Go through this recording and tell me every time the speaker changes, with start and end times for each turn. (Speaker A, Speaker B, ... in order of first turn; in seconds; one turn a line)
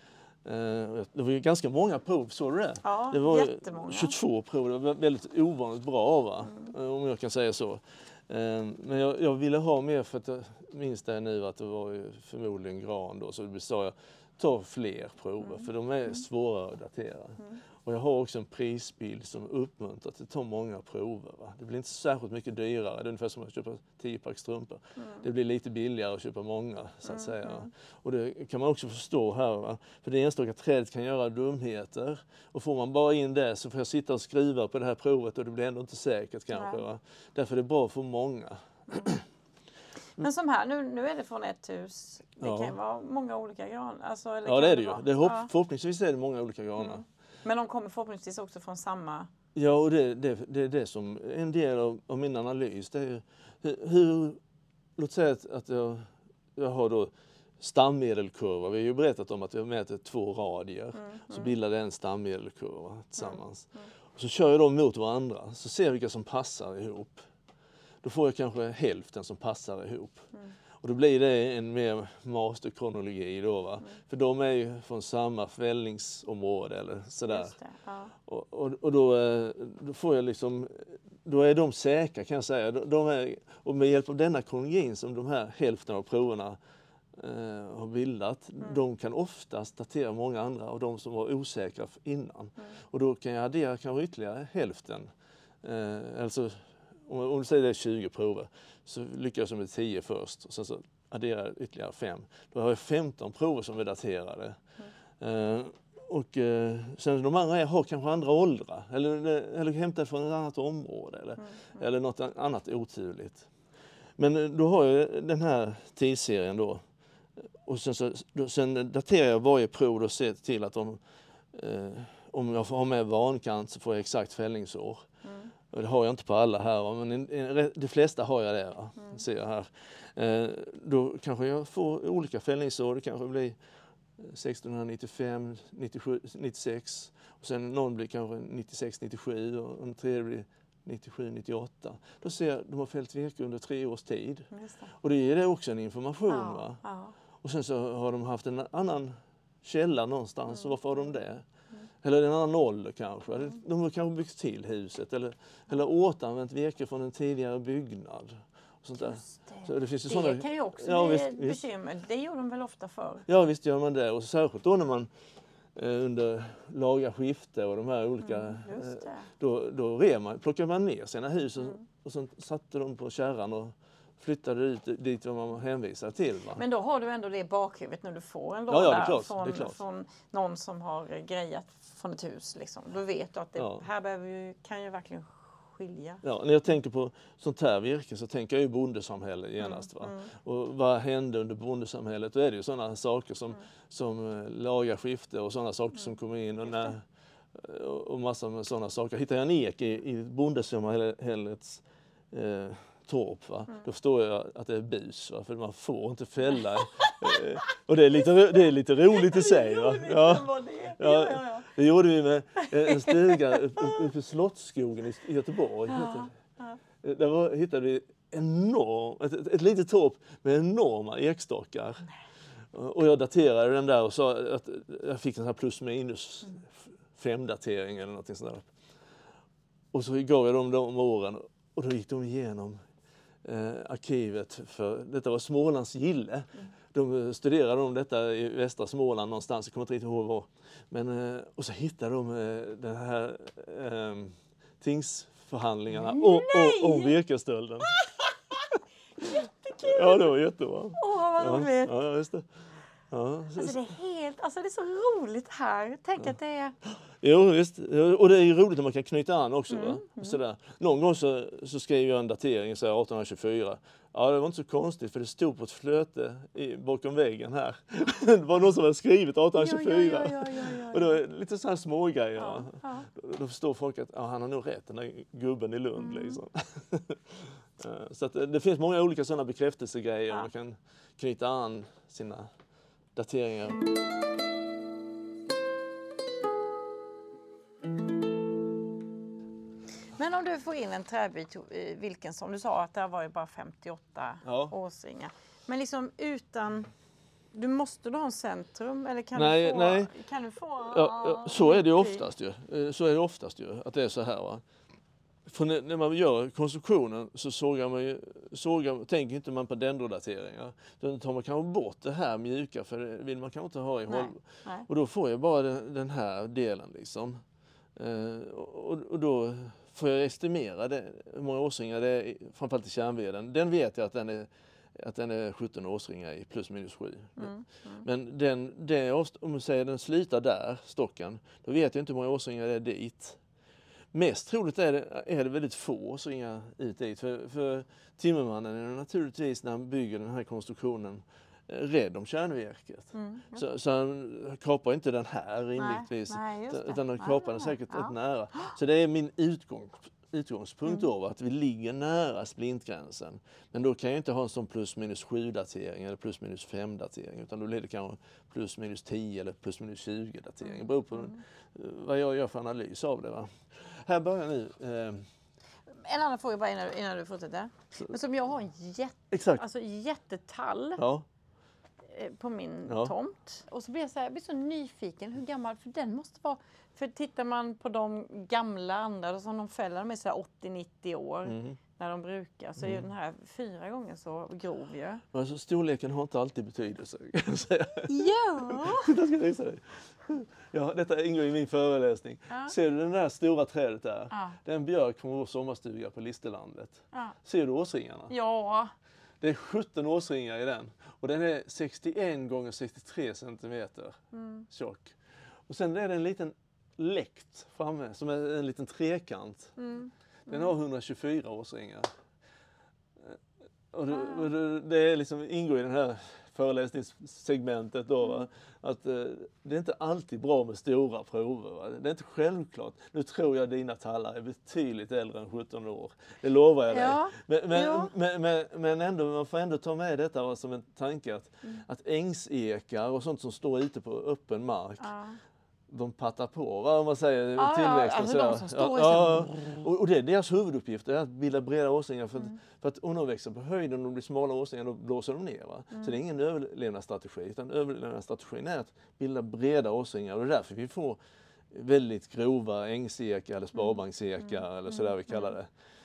Speaker A: 0.4-39.2
Speaker B: 2.8-4.2
Speaker B: 25.0-25.3
Speaker B: 27.1-27.7
Speaker B: 36.5-36.8
Speaker B: 40.2-45.5
Speaker A: 42.4-42.8
Speaker A: 44.5-47.0
Speaker B: 46.8-49.3
Speaker A: 49.5-54.4
Speaker A: 55.0-67.3
Speaker B: 61.0-61.5
Speaker B: 63.2-63.9
Speaker A: 68.0-70.3
Speaker A: 70.8-77.5
Speaker B: 77.3-78.1
Speaker A: 78.2-86.6
Speaker A: 87.2-104.6
Speaker A: 105.2-113.5
Speaker B: 111.4-111.8
Speaker A: 114.2-116.8
Speaker A: 117.4-121.0
Speaker A: 121.5-125.0
Speaker B: 125.2-125.5
Speaker A: 125.7-133.6
Speaker A: 134.2-146.8
Speaker B: 144.5-144.9
Speaker B: 146.3-147.1
Speaker A: 147.4-151.4
Speaker A: 152.0-161.6
Speaker B: 159.1-163.3
Speaker A: 163.3-165.1
Speaker A: 165.8-176.6
Speaker B: 168.2-169.3
Speaker B: 176.6-186.2
Speaker A: 178.7-179.8
Speaker A: 183.6-183.9
Speaker A: 186.2-216.3
Speaker B: 189.6-190.3
Speaker B: 206.8-207.2
Speaker B: 209.2-211.7
Speaker B: 212.6-214.0
Speaker B: 215.9-216.8
Speaker A: 217.0-222.1
Speaker A: 222.7-228.7
Speaker A: 229.9-232.8
Speaker A: 233.4-247.9
Speaker B: 246.0-247.2
Speaker B: 247.9-248.2
Speaker B: 249.2-250.3
Speaker A: 249.8-252.5
Speaker B: 251.0-251.9
Speaker A: 253.1-253.8
Speaker B: 253.6-256.8
Speaker A: 256.9-282.5
Speaker B: 259.7-260.4
Speaker B: 269.6-271.2
Speaker B: 272.4-273.1
Speaker B: 276.1-276.4
Speaker A: 283.1-283.8
Speaker B: 290.2-296.9
Speaker A: 294.4-294.7
Speaker B: 297.5-302.2
Speaker A: 299.3-300.1
Speaker A: 300.8-304.6
Speaker A: 305.5-317.4
Speaker B: 314.1-314.9
Speaker A: 318.0-327.5
Speaker B: 327.4-328.1
Speaker A: 328.0-333.4
Speaker A: 334.1-365.2
Speaker B: 343.1-343.6
Speaker B: 345.8-348.7
Speaker B: 360.6-361.4
Speaker B: 365.9-371.0
Speaker A: 369.3-369.6
Speaker A: 371.0-371.3
Speaker B: 372.1-385.2
Speaker A: 372.9-373.1
Speaker A: 381.5-381.8
Speaker A: 382.8-383.1
Speaker A: 385.3-398.3
Speaker B: 388.1-389.1
Speaker B: 394.3-394.6
Speaker B: 398.3-398.9
Speaker A: 399.4-404.2
Speaker B: 404.3-404.7
Speaker A: 404.7-405.2
Speaker A: 405.7-409.8
Speaker B: 409.8-410.7
Speaker A: 410.5-412.1
Speaker A: 413.9-435.1
Speaker B: 414.1-414.5
Speaker B: 426.9-428.1
Speaker B: 435.0-435.4
Speaker A: 435.9-451.2
Speaker B: 437.6-439.8
Speaker A: 451.7-455.7
Speaker B: 454.9-455.5